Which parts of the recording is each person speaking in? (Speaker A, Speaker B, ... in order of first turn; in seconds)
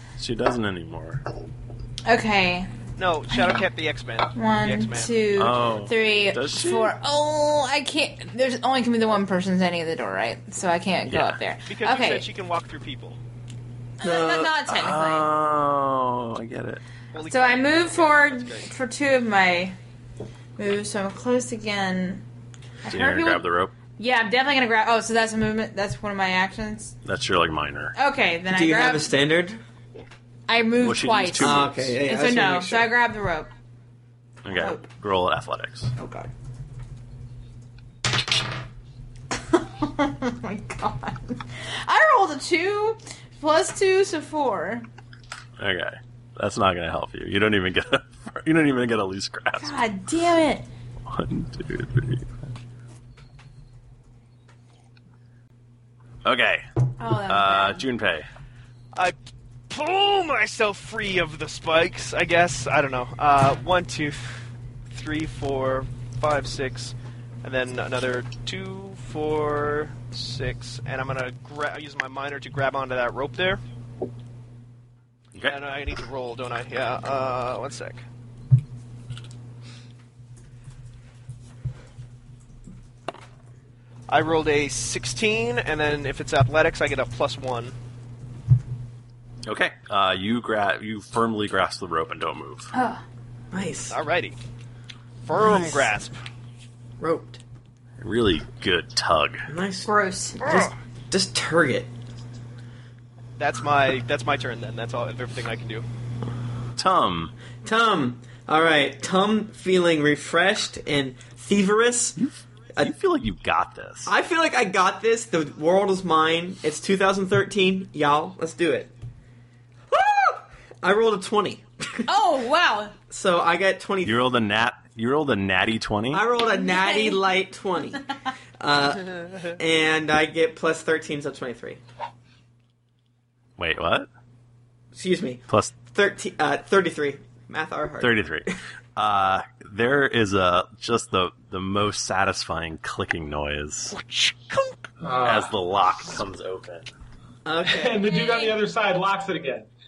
Speaker A: 0.2-1.2, 5.3-6.9, 11.1-11.4, 14.7-16.8, 22.9-23.7, 27.1-27.9, 30.8-32.0, 34.4-35.9, 45.6-49.8, 51.1-52.3, 56.2-58.3, 89.5-92.7, 98.0-99.5, 106.8-107.3, 112.8-114.1, 124.0-126.2, 133.6-134.1, 135.5-135.8, 138.0-143.9, 145.2-146.9
Speaker B: 2.1-2.7, 3.3-3.6, 4.3-12.3, 14.0-15.3, 17.3-19.8, 20.6-22.2, 22.8-23.4, 24.0-26.9, 27.9-29.1, 30.5-33.5, 34.5-34.8, 39.5-44.9, 49.6-50.7, 57.0-57.8, 92.7-93.0, 99.8-100.4, 122.1-123.0, 126.5-127.2, 148.0-148.6
Speaker C: 3.0-5.2, 11.7-13.2, 17.1-18.7, 59.7-73.6, 75.4-78.0, 84.1-87.7, 93.9-94.4, 95.3-96.2, 103.4-105.8, 143.9-144.9
Speaker D: 14.0-14.5, 28.5-29.6, 31.4-32.9, 36.0-36.3, 93.5-94.0, 97.0-97.4, 99.5-101.9, 107.6-112.2, 114.1-118.9, 119.9-122.0, 123.1-124.3, 126.1-128.1, 128.6-131.8, 134.9-138.2, 147.4-148.1
Speaker E: 145.0-145.5, 147.7-149.7